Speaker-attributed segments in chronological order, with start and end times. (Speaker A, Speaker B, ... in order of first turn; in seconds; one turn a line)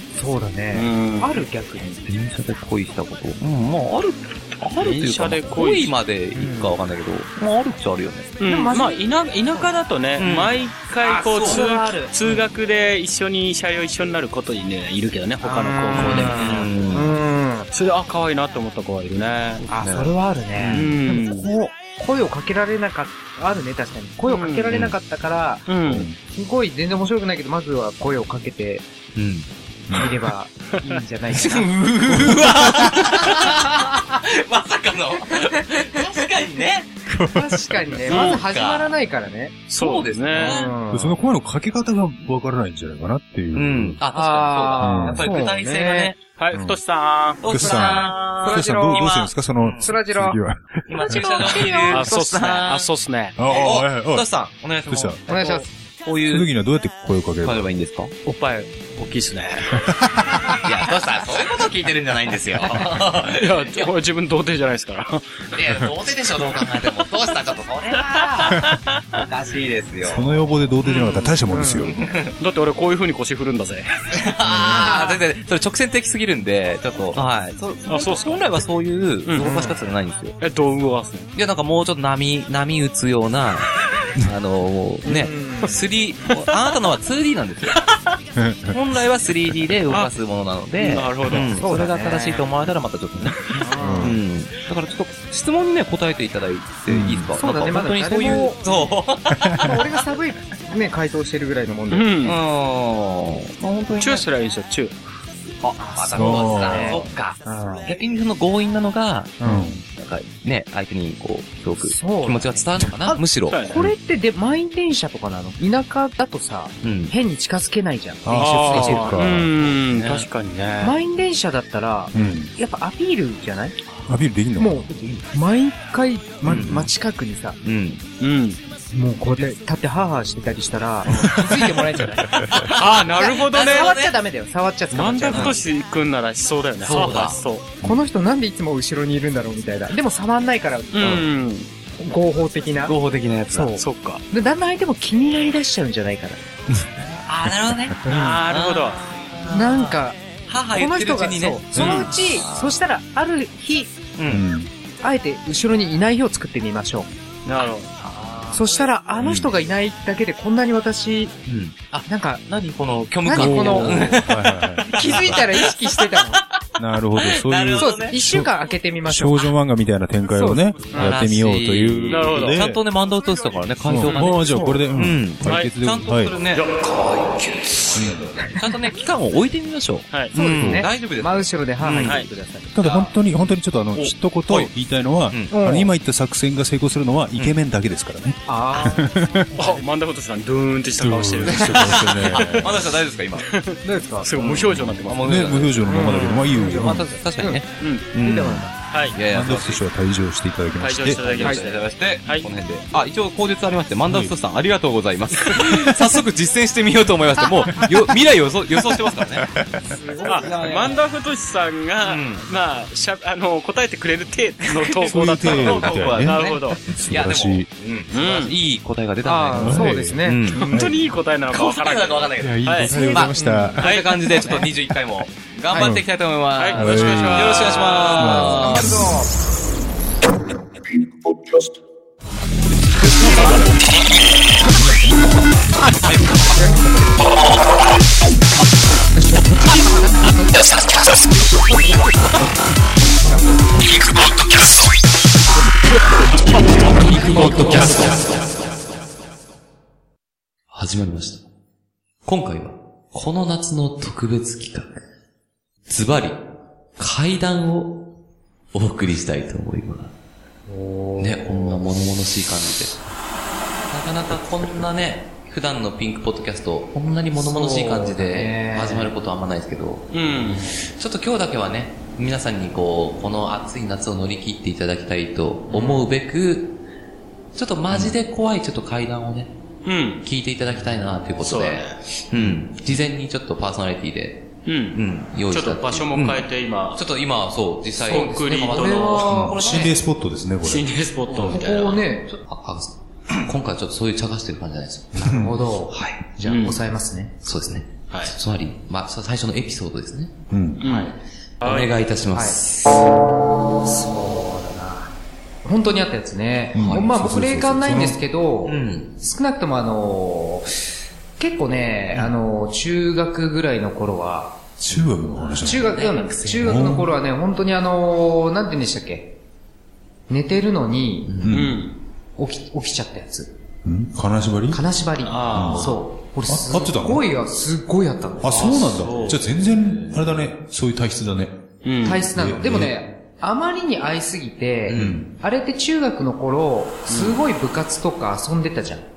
Speaker A: 0.2-2.1
Speaker B: 0.7-1.4
Speaker C: 2.1-8.3
Speaker B: 4.8-5.9
Speaker A: 6.3-6.8
Speaker B: 8.4-16.6
Speaker A: 8.4-9.0
Speaker C: 10.2-12.1
Speaker A: 11.4-12.4
Speaker A: 15.4-17.7
Speaker C: 15.9-17.1
Speaker B: 17.7-19.6
Speaker C: 19.6-21.0
Speaker A: 19.7-28.8
Speaker B: 20.7-21.5
Speaker B: 24.3-24.7
Speaker B: 25.7-26.1
Speaker D: 25.9-26.1
Speaker C: 29.1-29.5
Speaker D: 29.9-30.2
Speaker A: 29.9-31.7
Speaker C: 31.3-36.9
Speaker D: 32.0-33.3
Speaker A: 33.4-33.7
Speaker D: 37.1-38.0
Speaker A: 37.2-39.6
Speaker C: 38.1-38.9
Speaker B: 39.7-40.6
Speaker C: 39.8-40.7
Speaker A: 40.3-41.1
Speaker D: 40.9-44.0
Speaker C: 43.5-46.2
Speaker A: 44.1-46.1
Speaker D: 44.8-45.2
Speaker B: 46.4-47.4
Speaker D: 46.5-46.8
Speaker C: 47.4-49.9
Speaker D: 47.4-51.2
Speaker A: 47.5-49.1
Speaker A: 49.8-50.4
Speaker C: 50.9-52.9
Speaker A: 51.0-52.1
Speaker B: 51.9-53.4
Speaker D: 53.4-54.3
Speaker C: 53.5-56.5
Speaker D: 54.9-55.2
Speaker A: 55.3-55.6
Speaker D: 56.3-57.6
Speaker C: 57.4-58.1
Speaker B: 58.2-59.9
Speaker D: 59.8-60.5
Speaker C: 60.5-63.9
Speaker B: 62.6-65.5
Speaker C: 65.5-70.3
Speaker B: 68.5-68.8
Speaker D: 70.0-72.0
Speaker C: 70.8-72.3
Speaker A: 71.5-71.9
Speaker B: 72.4-73.9
Speaker C: 74.1-80.4
Speaker A: 74.5-75.2
Speaker B: 77.9-78.5
Speaker B: 79.2-79.5
Speaker A: 79.4-79.8
Speaker B: 80.4-81.3
Speaker C: 81.3-87.8
Speaker A: 85.0-85.8
Speaker D: 88.4-88.8
Speaker C: 88.7-99.9
Speaker B: 90.8-91.5
Speaker A: 91.5-92.5
Speaker A: 93.6-94.2
Speaker D: 93.8-94.2
Speaker D: 96.9-97.3
Speaker A: 97.4-98.6
Speaker D: 99.4-99.8
Speaker A: 99.6-102.2
Speaker B: 101.9-102.4
Speaker C: 102.2-104.2
Speaker B: 104.0-105.0
Speaker C: 105.6-113.6
Speaker A: 105.8-107.9
Speaker D: 106.1-107.0
Speaker A: 109.4-109.8
Speaker D: 109.4-109.8
Speaker A: 111.8-119.2
Speaker B: 113.5-113.9
Speaker C: 116.8-117.1
Speaker D: 118.2-119.5
Speaker B: 118.3-121.0
Speaker C: 119.9-120.2
Speaker A: 120.8-123.8
Speaker D: 122.1-122.5
Speaker D: 124.1-124.8
Speaker A: 124.6-127.6
Speaker C: 126.4-126.9
Speaker D: 126.5-126.8
Speaker C: 127.6-128.0
Speaker B: 128.2-128.6
Speaker A: 128.9-135.6
Speaker C: 132.5-134.1
Speaker B: 132.6-133.9
Speaker B: 134.9-137.7
Speaker C: 135.3-135.6
Speaker C: 136.8-137.4
Speaker A: 137.8-141.3
Speaker B: 140.9-141.7
Speaker A: 142.0-142.9
Speaker C: 142.8-143.8
Speaker A: 143.5-146.4
Speaker B: 143.8-144.2
Speaker C: 147.0-150.0
Speaker A: 148.1-148.4
Speaker B: 148.1-149.0
Speaker A: 149.5-150.2
Speaker C: 150.5-152.8
Speaker A: 150.7-153.9
Speaker B: 151.8-152.1
Speaker C: 154.2-154.4
Speaker D: 154.3-154.7
Speaker A: 155.0-157.1
Speaker B: 157.4-157.9
Speaker C: 158.0-158.7
Speaker A: 158.5-161.3
Speaker C: 161.5-166.3
Speaker A: 162.1-162.4
Speaker A: 163.2-164.2
Speaker D: 163.3-165.4
Speaker A: 164.9-166.4
Speaker D: 166.8-168.5
Speaker C: 167.2-168.2
Speaker A: 167.8-169.5
Speaker D: 169.1-172.8
Speaker A: 170.3-171.2
Speaker C: 170.9-174.4
Speaker B: 172.1-172.6
Speaker D: 173.8-176.4
Speaker B: 174.0-174.3
Speaker A: 174.0-174.8
Speaker C: 174.9-182.2
Speaker B: 175.4-175.7
Speaker D: 177.9-178.3
Speaker A: 180.3-182.7
Speaker D: 180.4-180.9
Speaker B: 182.0-182.3
Speaker D: 182.7-189.5
Speaker C: 182.8-183.1
Speaker C: 183.9-184.7
Speaker A: 185.5-185.9
Speaker A: 188.5-189.2
Speaker B: 189.6-192.8
Speaker D: 191.0-192.8
Speaker C: 191.5-193.5
Speaker B: 193.5-195.6
Speaker A: 193.8-194.8
Speaker C: 195.0-199.8
Speaker D: 195.2-197.1
Speaker A: 195.8-198.8
Speaker B: 197.8-198.1
Speaker B: 198.9-199.2
Speaker D: 199.2-201.3
Speaker B: 200.8-202.5
Speaker C: 201.1-209.5
Speaker D: 204.1-204.3
Speaker D: 209.4-209.9
Speaker A: 209.8-210.9
Speaker B: 210.2-216.8
Speaker C: 210.3-211.0
Speaker C: 212.0-212.5
Speaker C: 214.7-220.7
Speaker D: 215.1-217.7
Speaker B: 218.1-218.5
Speaker A: 219.2-220.9
Speaker D: 219.6-220.9
Speaker B: 220.5-222.9
Speaker C: 221.5-229.0
Speaker D: 222.4-223.9
Speaker A: 222.9-223.8
Speaker B: 223.8-224.6
Speaker D: 225.7-226.1
Speaker B: 226.6-228.5
Speaker D: 226.7-229.1
Speaker A: 228.3-229.3
Speaker A: 233.1-233.6
Speaker C: 233.3-233.6
Speaker C: 236.1-236.6
Speaker A: 236.6-236.9
Speaker C: 240.6-241.1
Speaker C: 247.0-248.2
Speaker D: 247.1-248.1
Speaker A: 247.2-248.0
Speaker C: 250.7-251.4
Speaker C: 252.2-255.0
Speaker C: 255.9-256.4
Speaker C: 257.0-258.1
Speaker C: 258.7-260.1
Speaker A: 260.7-261.8
Speaker C: 261.2-263.0
Speaker C: 263.9-276.8
Speaker A: 267.4-269.1
Speaker B: 270.1-270.7
Speaker A: 275.7-276.1
Speaker C: 277.6-279.5
Speaker B: 279.9-280.2
Speaker C: 280.2-286.4
Speaker B: 281.4-282.0
Speaker D: 282.3-282.6
Speaker B: 284.6-287.0
Speaker C: 286.9-289.9
Speaker B: 288.0-289.4
Speaker A: 288.1-289.9
Speaker D: 289.3-290.9
Speaker B: 290.6-292.0
Speaker A: 291.4-292.4
Speaker C: 292.4-296.2
Speaker A: 295.2-297.4
Speaker D: 295.2-295.6
Speaker B: 296.4-296.8
Speaker C: 297.4-300.4
Speaker B: 298.1-298.4
Speaker D: 300.5-300.8
Speaker B: 300.8-302.0
Speaker C: 301.6-302.9
Speaker A: 302.3-302.6
Speaker A: 303.8-305.1
Speaker A: 305.6-310.8
Speaker D: 306.7-308.2
Speaker C: 306.8-307.1
Speaker C: 308.6-309.1
Speaker A: 311.4-314.6
Speaker D: 314.8-316.0
Speaker C: 314.9-316.9
Speaker A: 315.6-319.3
Speaker D: 316.6-317.1
Speaker A: 320.3-321.4
Speaker C: 321.2-321.6
Speaker D: 321.4-321.8
Speaker B: 321.5-321.9
Speaker A: 322.4-323.5
Speaker D: 323.8-324.8
Speaker A: 324.7-328.8
Speaker B: 325.2-326.0
Speaker D: 325.5-327.2
Speaker D: 328.4-331.6
Speaker B: 328.5-329.4
Speaker B: 331.8-332.3
Speaker A: 332.0-339.1
Speaker D: 332.3-333.0
Speaker C: 334.9-335.2
Speaker D: 334.9-335.3
Speaker B: 337.1-337.4